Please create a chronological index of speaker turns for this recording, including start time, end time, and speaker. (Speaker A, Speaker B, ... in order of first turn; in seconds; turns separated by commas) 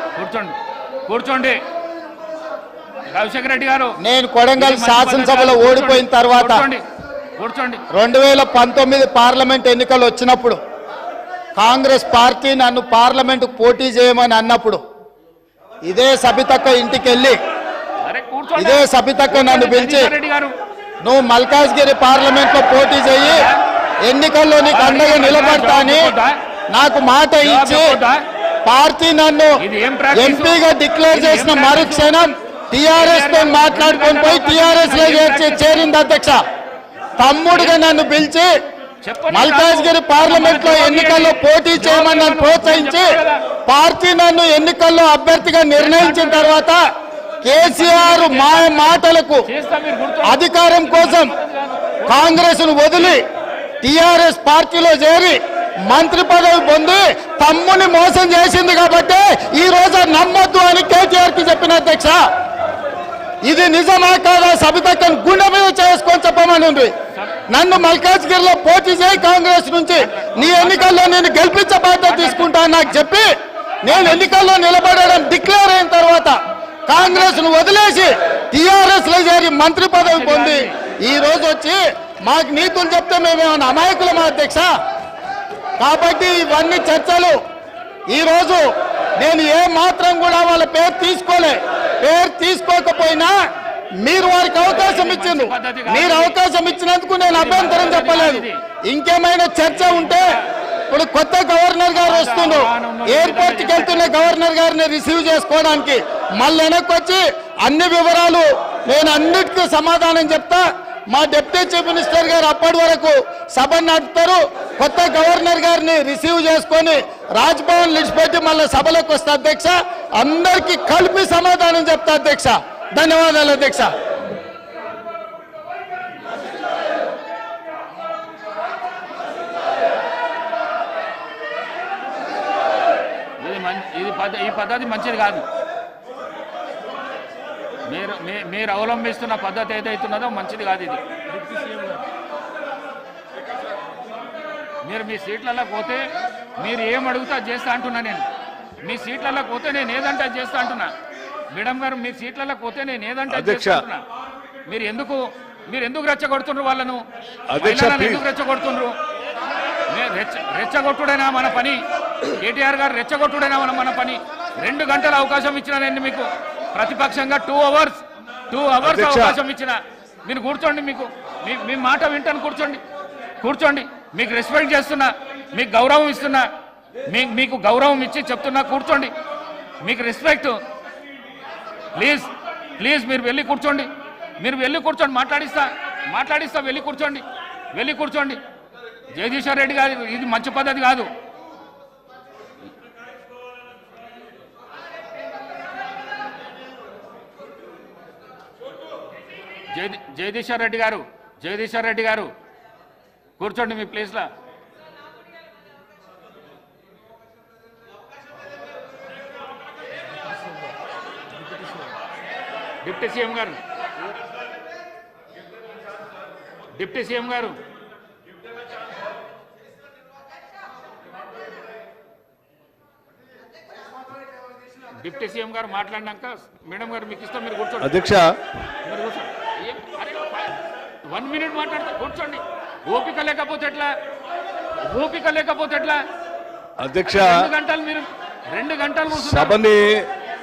Speaker A: 0.2-0.6, Speaker A: 1.1-1.6, Speaker A: 3.1-4.0, Speaker B: 4.0-6.7, Speaker A: 4.6-6.8, Speaker A: 7.4-7.8, Speaker B: 7.9-10.6, Speaker B: 11.6-14.8, Speaker B: 15.9-17.4, Speaker A: 18.0-20.5, Speaker B: 18.6-20.1, Speaker B: 21.0-23.5, Speaker A: 23.2-23.6, Speaker B: 24.1-26.1, Speaker A: 24.7-26.4, Speaker B: 26.7-28.0, Speaker A: 27.4-28.2, Speaker B: 28.6-29.6, Speaker A: 29.6-30.6, Speaker B: 30.1-36.4, Speaker A: 31.1-32.3, Speaker A: 32.9-35.9, Speaker B: 37.2-38.5, Speaker A: 37.5-37.8, Speaker A: 39.0-43.4, Speaker B: 39.3-46.8, Speaker A: 45.8-46.6, Speaker B: 47.4-49.5, Speaker A: 47.6-52.4, Speaker B: 50.2-51.3, Speaker B: 52.1-53.2, Speaker B: 53.8-62.2, Speaker B: 63.4-66.9, Speaker A: 67.1-67.4, Speaker B: 67.5-73.3, Speaker A: 70.0-71.3, Speaker A: 72.0-72.6, Speaker B: 73.8-76.4, Speaker A: 73.9-74.4, Speaker B: 76.9-84.7, Speaker A: 77.0-77.5, Speaker A: 80.0-80.8, Speaker B: 85.8-87.4, Speaker B: 88.1-88.6, Speaker B: 89.2-93.3, Speaker B: 94.0-100.3, Speaker A: 94.7-96.4, Speaker A: 97.3-98.6, Speaker A: 99.7-100.4, Speaker B: 100.9-123.9, Speaker A: 102.0-104.3, Speaker A: 133.4-135.5, Speaker A: 137.9-141.0, Speaker A: 144.8-146.0, Speaker A: 146.6-148.3, Speaker A: 148.8-150.9, Speaker A: 151.5-154.0, Speaker C: 153.3-153.9, Speaker A: 154.7-157.0, Speaker C: 157.5-158.2, Speaker A: 157.6-158.9, Speaker A: 159.9-172.8, Speaker C: 168.8-169.4, Speaker A: 173.4-176.5, Speaker A: 177.1-179.1, Speaker A: 179.8-180.6, Speaker A: 181.9-188.4, Speaker A: 189.1-191.1, Speaker A: 199.7-202.3, Speaker A: 203.4-204.3, Speaker A: 212.8-213.6, Speaker A: 216.8-217.6, Speaker A: 225.0-228.0, Speaker C: 227.8-228.4, Speaker A: 228.8-233.9, Speaker A: 234.8-236.0, Speaker C: 236.8-237.5, Speaker A: 237.1-239.6, Speaker C: 239.1-240.1